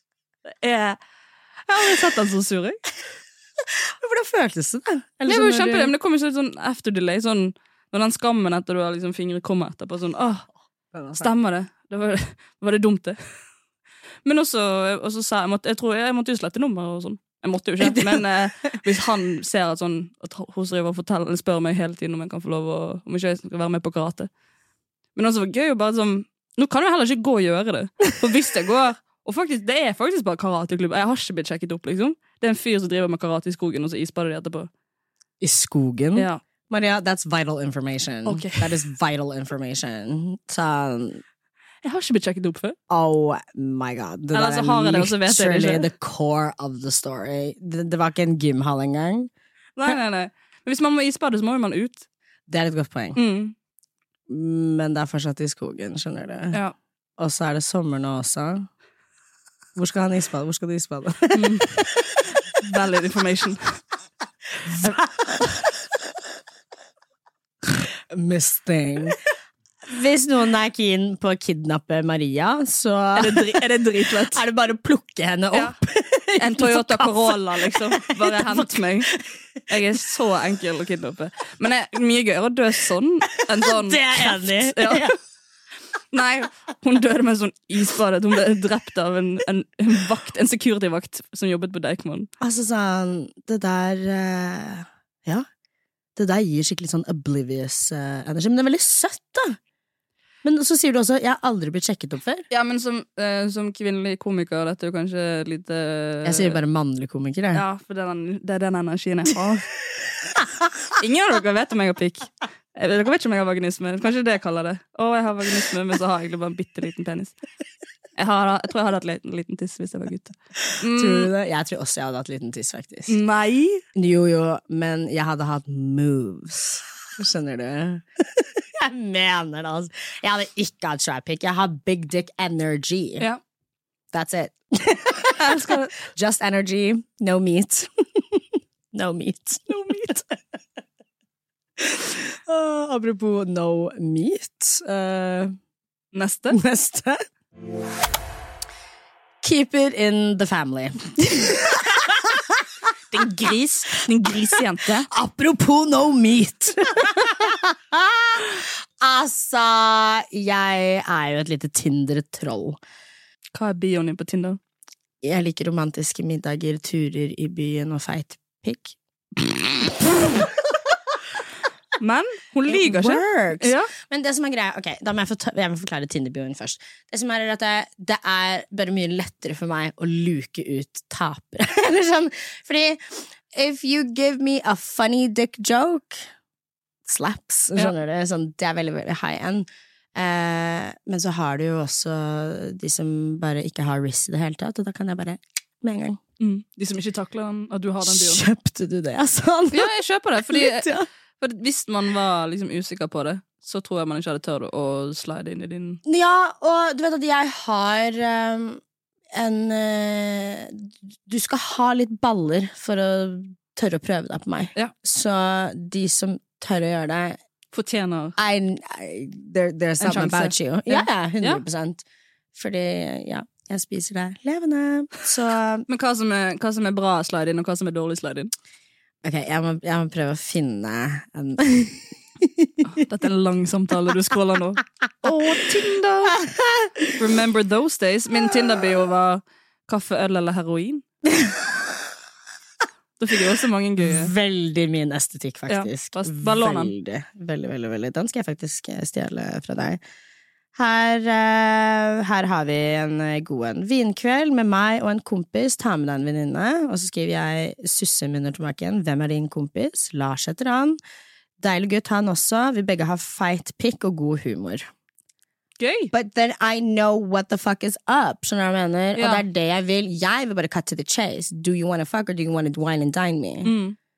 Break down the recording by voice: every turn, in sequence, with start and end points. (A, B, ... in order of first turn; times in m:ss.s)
0:00.6-0:01.0 A
0:01.7-0:02.8 A
0:04.0-0:05.9 B
0:05.2-0:10.5 A
0:10.9-0:11.3 B
0:11.2-0:13.2 A
0:14.2-0:24.3 A
0:17.8-0:18.2 B
0:25.1-0:34.7 A
0:35.4-0:41.2 B
0:36.2-0:36.4 A
0:38.2-0:38.8 A
0:41.8-0:42.8 A
0:42.9-0:49.3 B
0:44.3-0:45.9 A
0:49.8-0:52.0 A
0:52.5-0:53.2 B
0:53.1-0:53.5 A
0:54.3-0:56.6 B
0:57.2-0:58.7 B
0:59.8-1:02.0 B
1:01.3-1:01.8 A
1:02.6-1:03.8 A
1:04.6-1:05.6 B
1:08.1-1:09.2 B
1:09.9-1:13.6 B
1:13.2-1:14.4 A
1:14.3-1:19.3 B
1:15.5-1:15.8 A
1:16.4-1:19.1 A
1:19.7-1:25.1 A
1:23.6-1:25.1 B
1:26.1-1:32.3 A
1:32.4-1:35.4 B
1:36.2-1:39.6 B
1:40.4-1:42.4 B
1:42.5-1:46.6 A
1:46.2-1:47.6 B
1:47.5-1:49.6 A
1:51.0-1:57.3 A
1:58.2-2:01.3 A
2:00.8-2:03.2 B
2:03.1-2:03.8 A
2:03.9-2:13.3 B
2:14.1-2:20.3 B
2:15.4-2:16.0 A
2:19.7-2:20.2 A
2:21.8-2:25.6 B
2:26.1-2:26.6 A
2:26.5-2:27.2 B
2:29.4-2:32.6 B
2:33.1-2:35.1 A
2:33.2-2:33.5 B
2:35.1-2:42.8 B
2:43.5-2:44.6 A
2:45.2-2:50.9 B
2:52.0-2:53.9 A
2:52.7-3:06.3 B
3:07.0-3:16.2 B
3:16.4-3:18.4 A
3:18.0-3:19.9 B
3:19.7-3:26.0 A
3:20.5-3:21.1 B
3:26.0-3:28.8 B
3:29.3-3:37.4 B
3:37.7-3:38.3 A
3:38.4-3:45.8 B
3:40.0-3:41.6 A
3:45.9-3:48.5 A
3:49.2-3:52.9 B
3:52.8-3:56.4 A
3:56.3-3:57.1 B
3:57.2-4:01.0 A
4:01.3-4:01.7 B
4:03.2-4:04.3 A
4:04.0-4:10.0 B
4:05.7-4:06.9 A
4:10.7-4:21.0 B
4:21.6-4:24.9 B
4:25.8-4:26.1 A
4:26.1-4:33.7 B
4:29.2-4:29.4 A
4:33.6-4:34.0 A